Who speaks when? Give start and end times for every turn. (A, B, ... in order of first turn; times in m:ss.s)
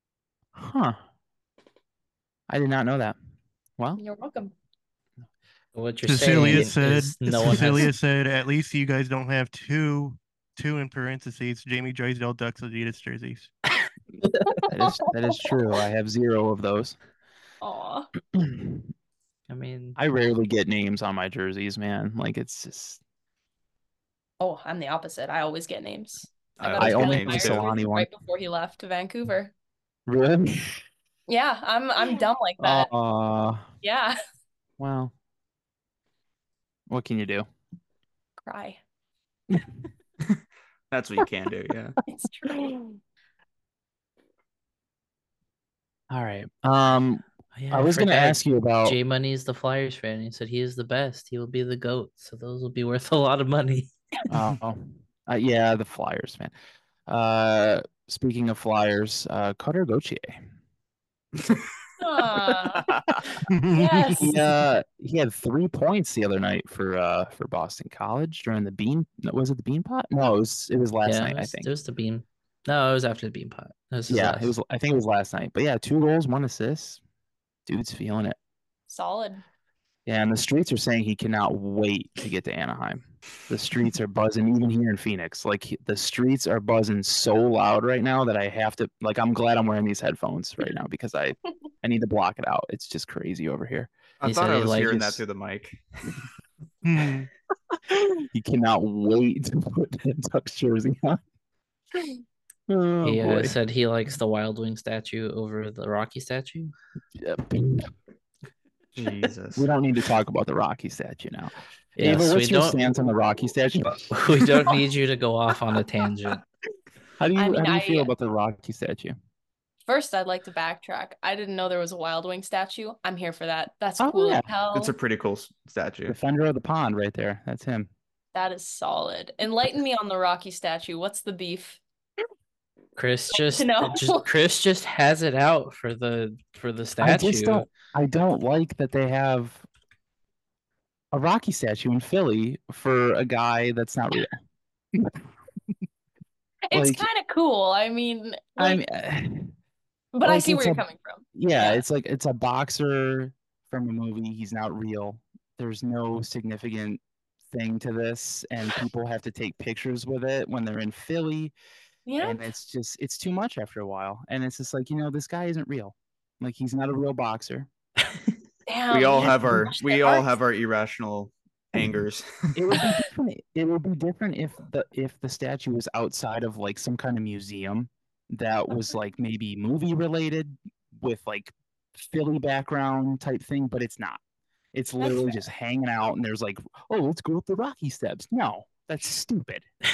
0:00.6-0:01.0 A
0:02.5-0:03.2 A
0:04.0-0:04.5 B
0:05.7-0:07.9 C
0:06.0-0:13.5 D
0:06.2-0:06.7 A
0:07.4-0:07.8 A
0:14.2-0:14.6 C
0:14.7-0:17.0 A
0:17.6-0:18.1 B
0:18.3-0:18.9 A
0:19.5-0:20.0 C
0:20.0-0:23.0 A
0:24.4-0:29.5 B
0:26.6-0:27.7 E
0:26.7-0:28.1 A
0:30.1-0:30.8 A
0:31.3-0:32.9 B
0:32.6-0:33.7 A
0:33.8-0:34.2 B
0:34.8-0:35.1 A
0:36.9-0:37.4 A
0:38.4-0:38.8 B
0:40.9-0:41.9 E
0:42.1-0:42.7 B
0:46.1-0:49.0 A
0:47.5-0:53.9 C
0:54.3-0:56.5 A
0:57.1-1:00.4 A
1:01.4-1:01.6 E
1:02.0-1:02.9 B
1:02.8-1:03.2 E
1:03.5-1:04.3 D
1:03.7-1:04.4 B
1:04.2-1:11.7 A
1:11.0-1:14.5 C
1:14.1-1:17.0 A
1:17.6-1:18.4 A
1:18.9-1:19.4 B
1:20.0-1:33.9 A
1:34.2-1:36.1 E
1:34.2-1:35.2 C
1:36.8-1:37.3 D
1:37.9-1:41.2 A
1:41.9-1:43.5 A
1:43.0-1:46.7 C
1:47.2-1:47.9 A
1:48.9-1:49.7 E
1:49.0-1:54.7 A
1:52.0-1:52.9 C
1:54.1-1:56.4 C
1:57.2-1:59.1 A
1:57.4-1:58.1 B
1:59.9-2:04.9 B
2:04.0-2:04.5 A
2:04.7-2:06.2 E
2:06.1-2:07.9 A
2:08.3-2:11.8 B
2:13.0-2:17.7 C
2:13.3-2:14.3 B
2:17.0-2:19.6 A
2:21.1-2:24.4 A
2:26.7-2:28.8 B
2:26.7-2:27.1 A
2:28.6-2:29.5 A
2:30.1-2:31.8 B
2:30.2-2:30.8 A
2:31.3-2:37.0 A
2:37.5-2:41.5 A
2:42.0-2:42.4 B
2:42.2-2:47.7 A
2:48.7-2:50.3 B
2:48.9-2:52.5 E
2:49.2-2:49.5 A
2:52.5-3:04.2 A
3:04.7-3:09.6 A
3:05.0-3:05.4 B